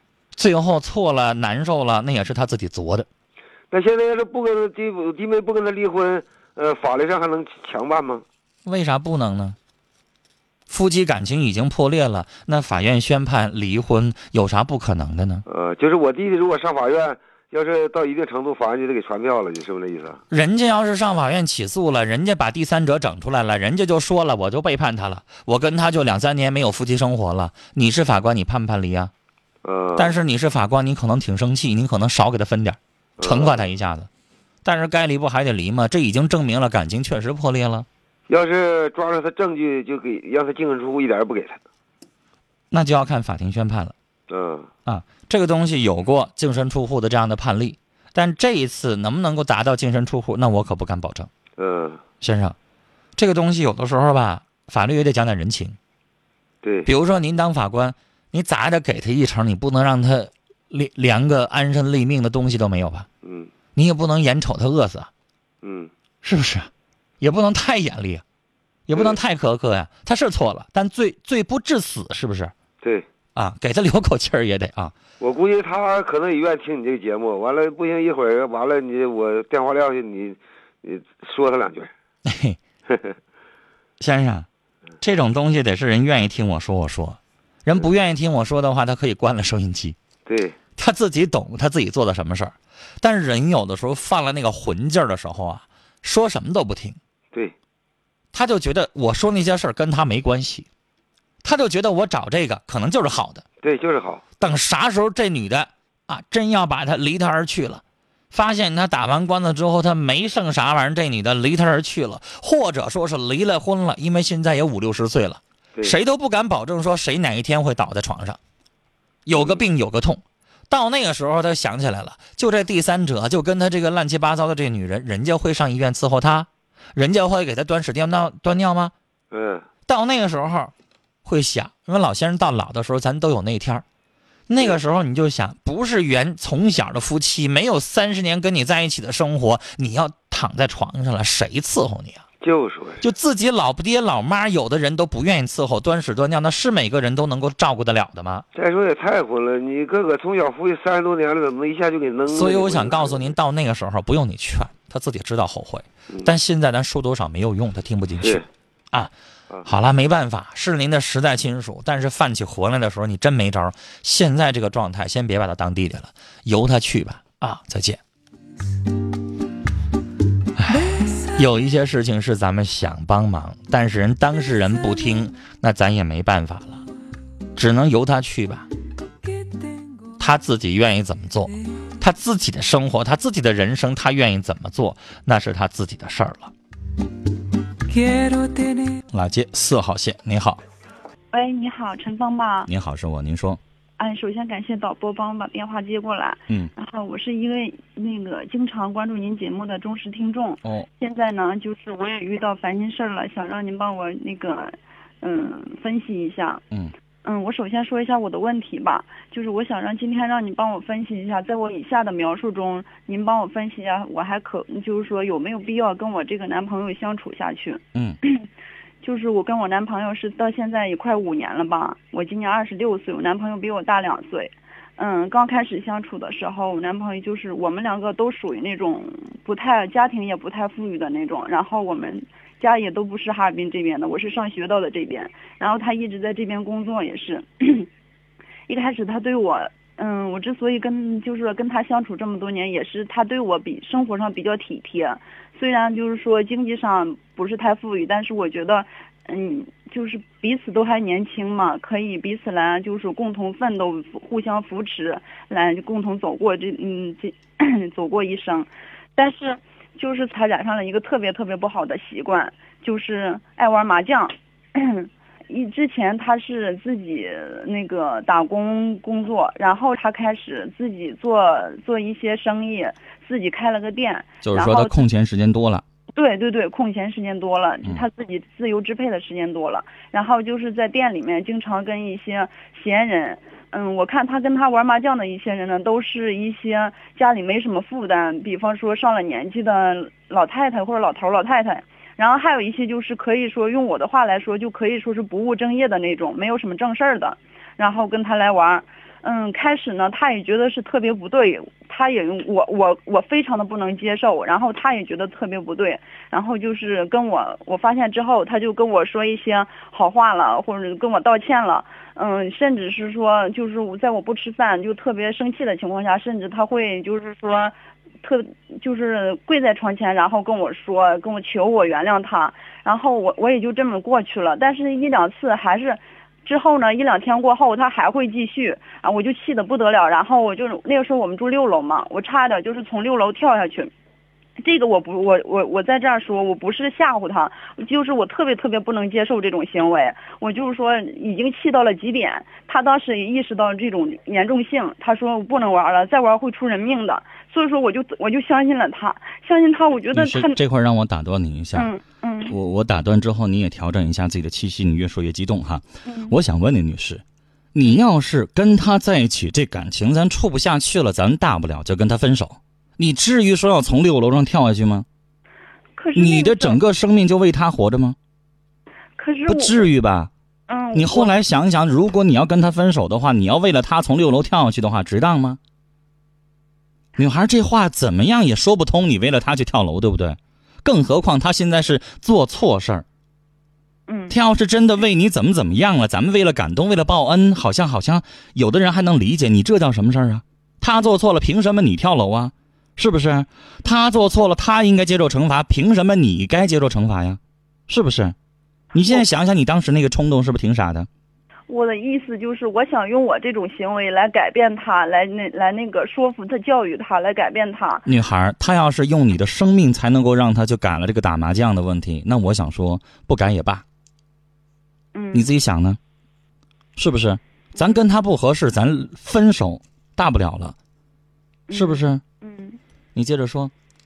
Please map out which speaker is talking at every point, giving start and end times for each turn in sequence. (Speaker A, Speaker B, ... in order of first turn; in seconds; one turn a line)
Speaker A: 0.3-3.1
Speaker B: 3.7-8.2
Speaker A: 8.6-9.6
Speaker A: 10.7-15.4
Speaker B: 15.5-20.2
Speaker A: 20.3-29.1
Speaker B: 29.6-30.2
Speaker A: 30.0-34.1
Speaker B: 33.2-33.6
Speaker A: 34.6-37.9
Speaker B: 38.3-41.6
Speaker A: 42.7-43.9
Speaker B: 44.3-44.7
Speaker A: 44.9-51.3
Speaker B: 51.6-52.0
Speaker A: 52.2-52.5
Speaker A: 53.2-55.8
Speaker B: 56.6-56.9
Speaker A: 56.9-63.1
Speaker B: 63.2-63.5
Speaker A: 63.7-65.1
Speaker B: 65.6-65.9
Speaker A: 66.2-66.7
Speaker A: 67.2-68.2
Speaker A: 68.9-72.5
Speaker B: 72.8-73.1
Speaker A: 73.3-74.9
Speaker B: 75.2-81.9
Speaker A: 82.2-82.6
Speaker B: 82.9-83.1
Speaker A: 84.0-84.5
Speaker A: 85.0-90.0
Speaker B: 90.2-90.5
Speaker A: 90.8-97.0
Speaker A: 98.3-100.7
Speaker A: 101.4-103.4
Speaker B: 103.6-104.2
Speaker A: 104.4-118.4
Speaker A: 119.2-128.9
Speaker B: 119.4-119.6
Speaker B: 129.3-129.7
Speaker A: 129.9-130.7
Speaker A: 131.2-133.8
Speaker A: 134.5-142.2
Speaker B: 142.4-143.0
Speaker A: 143.0-148.4
Speaker B: 148.5-153.3
Speaker A: 152.3-159.1
Speaker B: 158.2-158.4
Speaker A: 159.6-168.0
Speaker A: 170.6-176.8
Speaker C: 170.7-171.4
Speaker A: 177.6-178.7
Speaker C: 179.2-180.2
Speaker A: 180.2-186.5
Speaker C: 187.9-189.0
Speaker A: 189.1-190.6
Speaker D: 191.3-192.7
Speaker E: 192.7-193.6
Speaker D: 194.0-206.6
Speaker D: 207.2-218.4
Speaker D: 219.0-237.9
Speaker D: 238.7-275.0
Speaker E: 274.4-275.8
Speaker D: 276.1-333.9
Speaker D: 334.6-350.6
Speaker E: 350.1-351.9
Speaker D: 351.7-352.5
Speaker E: 352.4-357.2
Speaker D: 356.1-356.4
Speaker E: 357.7-365.1
Speaker D: 365.9-366.8
Speaker E: 366.1-368.2
Speaker D: 369.2-369.9
Speaker E: 369.5-370.3
Speaker D: 370.7-371.3
Speaker E: 370.9-375.6
Speaker E: 377.2-383.0
Speaker D: 384.1-384.3
Speaker E: 384.3-398.3
Speaker E: 398.9-401.1
Speaker D: 401.7-408.1
Speaker E: 408.1-413.8
Speaker D: 415.1-415.5
Speaker E: 415.3-416.0
Speaker E: 416.9-420.8
Speaker D: 421.7-422.8
Speaker E: 421.7-422.2
Speaker E: 423.1-423.7